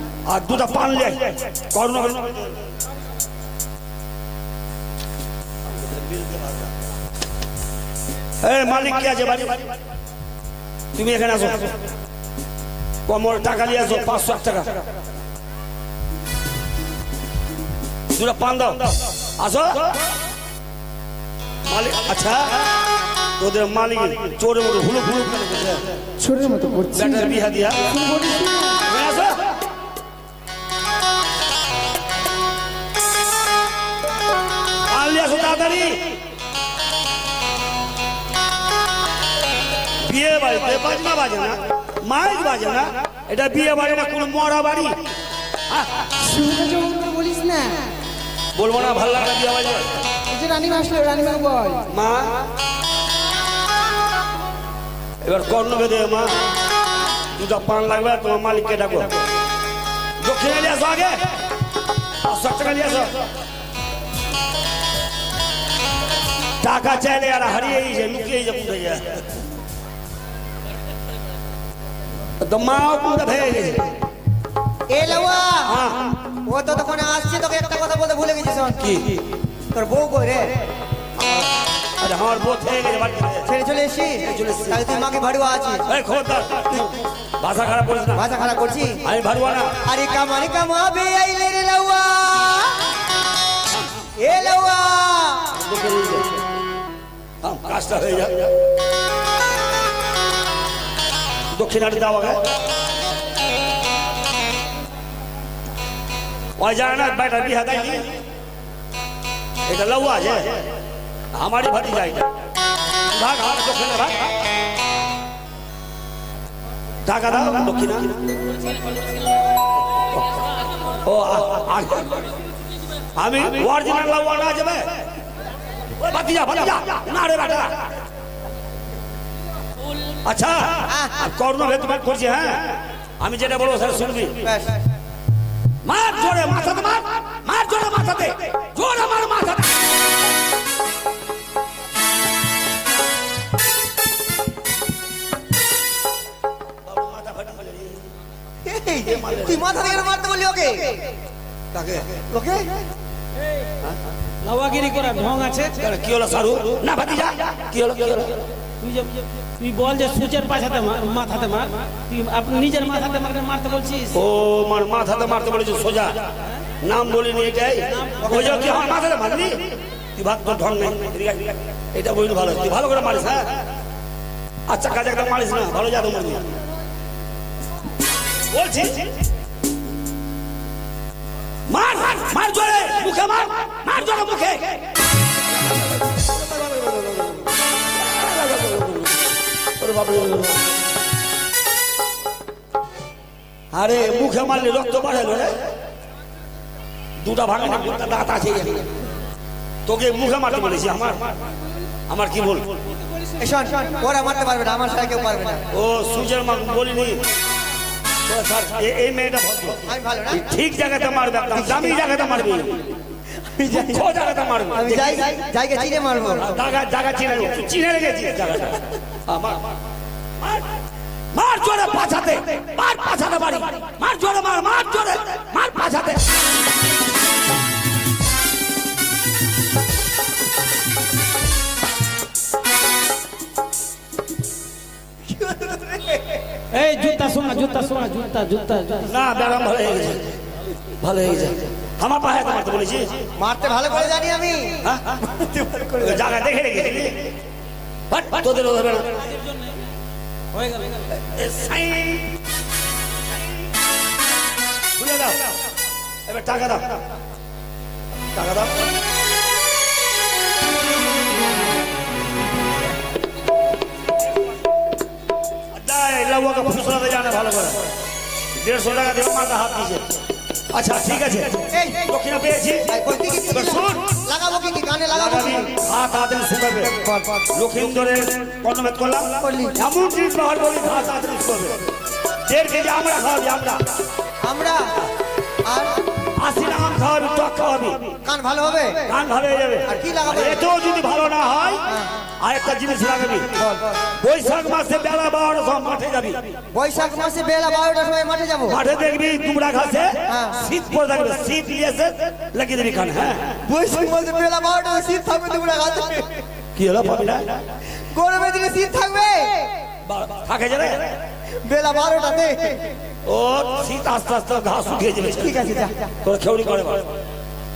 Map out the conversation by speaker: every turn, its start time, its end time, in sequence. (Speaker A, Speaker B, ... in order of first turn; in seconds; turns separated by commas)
Speaker A: 0.3-2.5, Speaker A: 6.2-6.4, Speaker A: 8.4-9.7, Speaker A: 10.9-11.8, Speaker A: 13.1-14.8, Speaker A: 18.1-20.0, Speaker A: 21.7-22.7, Speaker A: 23.4-25.8, Speaker B: 26.2-28.8, Speaker A: 26.9-27.9, Speaker A: 28.9-29.6, Speaker A: 34.9-36.2, Speaker A: 40.0-45.0, Speaker A: 45.7-46.1, Speaker B: 46.2-47.8, Speaker A: 48.5-49.9, Speaker B: 50.3-51.8, Speaker A: 51.9-52.5, Speaker A: 55.2-56.4, Speaker A: 57.4-59.2, Speaker A: 60.2-61.2, Speaker A: 62.2-63.2, Speaker A: 66.6-69.3, Speaker A: 72.4-74.0, Speaker C: 74.9-75.7, Speaker A: 75.7-76.2, Speaker C: 76.5-78.8, Speaker A: 78.8-79.2, Speaker C: 79.7-80.5, Speaker A: 82.0-83.5, Speaker C: 83.5-85.9, Speaker A: 84.2-84.8, Speaker A: 85.9-88.2, Speaker C: 88.1-89.0, Speaker A: 89.0-89.8, Speaker C: 89.8-92.8, Speaker C: 94.2-95.6, Speaker A: 95.6-96.4, Speaker A: 97.4-98.5, Speaker A: 101.5-102.4, Speaker A: 106.6-108.1, Speaker A: 109.7-110.7, Speaker A: 111.3-112.3, Speaker A: 113.1-114.3, Speaker A: 117.0-118.1, Speaker A: 120.1-120.4, Speaker A: 121.0-122.3, Speaker A: 123.2-124.9, Speaker A: 126.0-127.9, Speaker A: 130.2-134.5, Speaker C: 130.9-131.2, Speaker C: 134.4-134.8, Speaker A: 135.8-139.8, Speaker A: 146.9-148.1, Speaker C: 148.7-151.0, Speaker A: 149.1-149.6, Speaker A: 151.7-152.1, Speaker C: 152.2-152.7, Speaker D: 154.4-155.8, Speaker A: 155.8-158.4, Speaker D: 158.8-164.2, Speaker A: 164.1-173.6, Speaker D: 168.0-168.9, Speaker A: 174.7-176.5, Speaker A: 178.5-179.2, Speaker A: 181.7-184.9, Speaker A: 185.5-190.7, Speaker A: 193.7-195.7, Speaker A: 197.2-198.9, Speaker A: 199.9-201.4, Speaker A: 202.1-202.8, Speaker C: 203.4-205.7, Speaker A: 205.7-207.2, Speaker A: 208.3-212.9, Speaker C: 209.9-210.4, Speaker C: 211.5-212.0, Speaker C: 213.5-214.1, Speaker A: 213.7-215.3, Speaker C: 214.7-216.5, Speaker A: 216.4-219.7, Speaker A: 221.3-226.2, Speaker C: 235.3-236.4, Speaker D: 236.7-239.1, Speaker A: 239.1-240.4, Speaker A: 241.0-243.3, Speaker C: 243.4-246.2, Speaker A: 244.8-245.2, Speaker A: 246.0-247.3, Speaker A: 248.1-249.2, Speaker D: 249.3-249.7, Speaker D: 250.5-251.1, Speaker A: 251.2-252.3, Speaker A: 255.0-255.6, Speaker A: 256.3-257.0, Speaker A: 258.3-258.8, Speaker A: 265.7-267.8, Speaker A: 268.6-270.1, Speaker A: 270.7-274.1, Speaker C: 271.7-272.1, Speaker C: 272.9-275.7, Speaker A: 275.1-276.9, Speaker C: 276.8-277.5, Speaker A: 277.5-281.8, Speaker C: 279.4-279.8, Speaker A: 282.5-283.8, Speaker C: 284.4-284.9, Speaker C: 285.6-286.0, Speaker A: 286.4-288.1, Speaker C: 288.2-289.1, Speaker A: 289.1-291.9, Speaker C: 289.9-290.6, Speaker C: 291.9-292.1, Speaker A: 292.4-293.5, Speaker C: 293.6-294.0, Speaker A: 294.2-296.4, Speaker C: 296.7-298.8, Speaker A: 298.7-303.6, Speaker C: 300.3-300.6, Speaker C: 303.7-306.3, Speaker A: 306.8-307.6, Speaker C: 308.1-309.7, Speaker A: 310.1-311.2, Speaker C: 311.6-312.8, Speaker A: 313.2-315.7, Speaker C: 315.4-316.1, Speaker A: 316.2-317.1